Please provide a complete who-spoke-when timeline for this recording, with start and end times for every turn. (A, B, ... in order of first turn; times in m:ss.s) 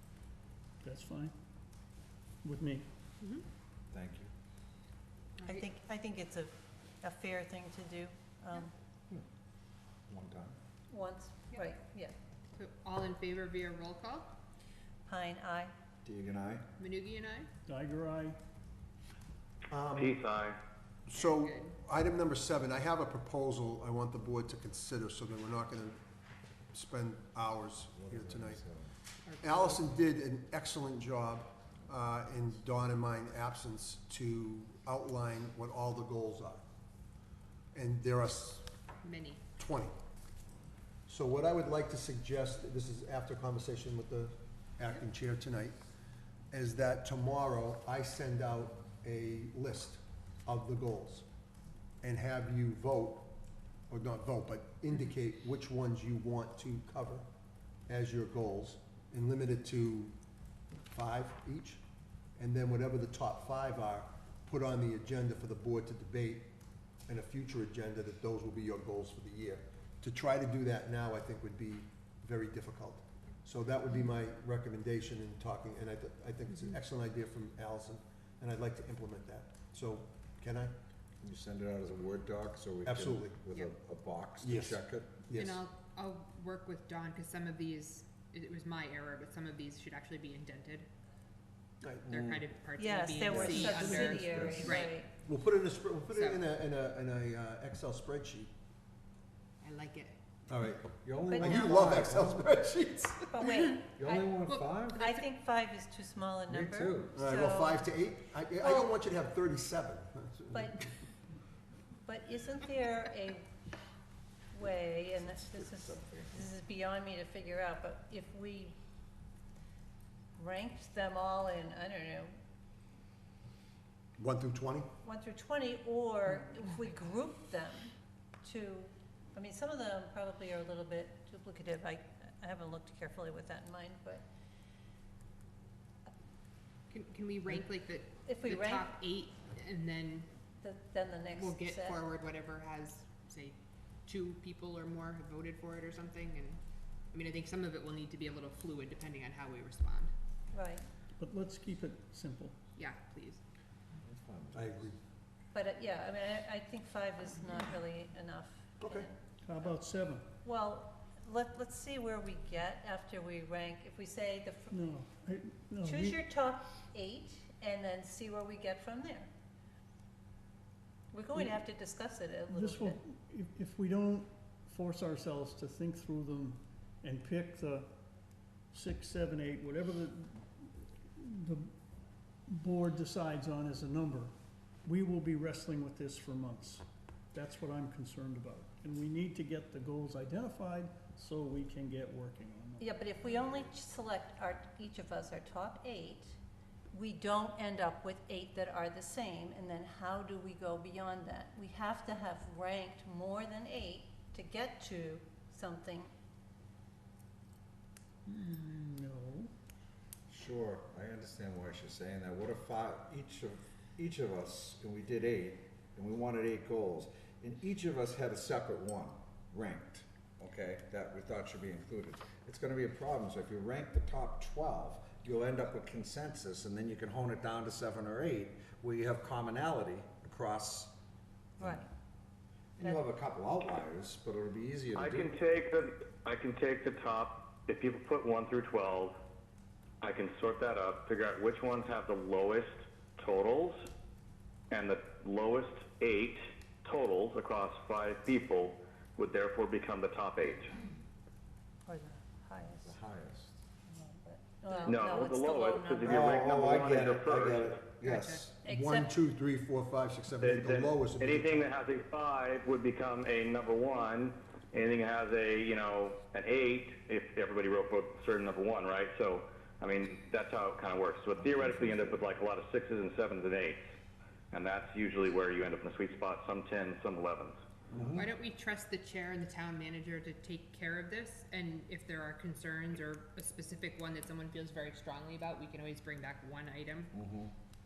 0:00.8-0:01.3 A
0:02.4-0:02.9 A
0:03.2-0:03.4 B
0:03.9-0:04.3 C
0:05.5-0:08.7 D
0:10.1-0:10.6 C
0:10.9-0:12.1 D
0:12.6-0:14.3 B
0:15.1-0:15.7 D
0:16.0-0:16.7 C
0:16.8-0:17.5 B
0:17.7-0:18.4 A
0:19.7-0:20.2 E
0:20.0-0:20.6 F
0:21.1-0:26.0 E
0:21.1-0:21.8 B
0:26.7-0:28.6 E
0:27.9-0:28.9 C
0:29.3-0:29.8 B
0:29.4-0:36.6 E
0:37.7-0:38.7 E
0:39.0-0:39.4 B
0:39.6-0:39.9 E
0:41.1-0:45.8 E
0:46.5-0:51.3 E
0:52.0-0:53.3 E
0:53.9-0:57.2 E
0:57.9-1:00.1 E
1:00.9-1:01.8 E
1:02.4-1:06.5 E
1:07.1-1:20.7 E
1:16.5-1:16.8 B
1:21.2-1:25.4 C
1:22.8-1:23.4 E
1:24.4-1:25.6 E
1:25.3-1:30.9 B
1:31.8-1:32.1 E
1:32.1-1:35.0 B
1:32.1-1:32.4 C
1:32.8-1:35.1 D
1:33.3-1:34.8 C
1:33.6-1:38.5 E
1:36.1-1:36.5 B
1:39.6-1:40.2 B
1:40.5-1:43.4 E
1:41.0-1:42.6 C
1:41.3-1:41.9 D
1:43.3-1:44.3 D
1:43.8-1:45.0 C
1:44.5-1:45.2 B
1:44.9-1:47.8 D
1:46.5-1:47.2 C
1:47.2-1:50.7 E
1:48.6-1:48.9 D
1:50.5-1:50.8 D
1:52.0-1:53.5 D
1:54.5-1:58.8 D
1:55.2-1:56.4 C
2:00.4-2:02.3 D
2:04.2-2:04.9 E
2:05.0-2:14.2 D
2:16.9-2:20.3 B
2:18.2-2:18.9 D
2:20.6-2:22.0 D
2:21.4-2:26.6 B
2:27.1-2:30.1 B
2:30.5-2:30.9 D
2:31.2-2:32.6 A
2:32.8-2:33.4 B
2:34.0-2:34.9 C
2:34.5-2:35.0 E
2:35.5-2:39.2 D
2:38.8-2:39.1 E
2:39.4-2:40.3 A
2:40.4-2:44.8 D
2:44.7-2:46.2 A
2:45.8-2:49.3 D
2:51.1-2:53.0 D
2:52.6-2:57.9 A
2:58.7-3:01.7 A
3:02.5-3:04.3 A
3:04.8-3:12.8 A
3:12.8-3:16.4 D
3:16.9-3:26.1 D
3:28.3-3:29.5 A
3:30.3-3:50.9 C
3:51.6-3:51.9 D
3:52.8-3:55.4 C
3:55.0-3:59.2 F
4:00.0-4:03.9 F
4:04.7-4:10.7 F
4:11.9-4:12.9 D
4:12.7-4:13.6 C
4:13.9-4:16.2 D
4:14.7-4:17.7 F
4:16.0-4:18.6 C
4:18.0-4:18.4 B
4:18.6-4:19.1 D
4:18.6-4:21.7 E
4:20.4-4:33.8 F
4:31.7-4:32.2 C
4:34.5-4:37.6 F
4:37.9-4:38.3 C
4:38.2-4:47.1 B
4:47.1-4:47.5 C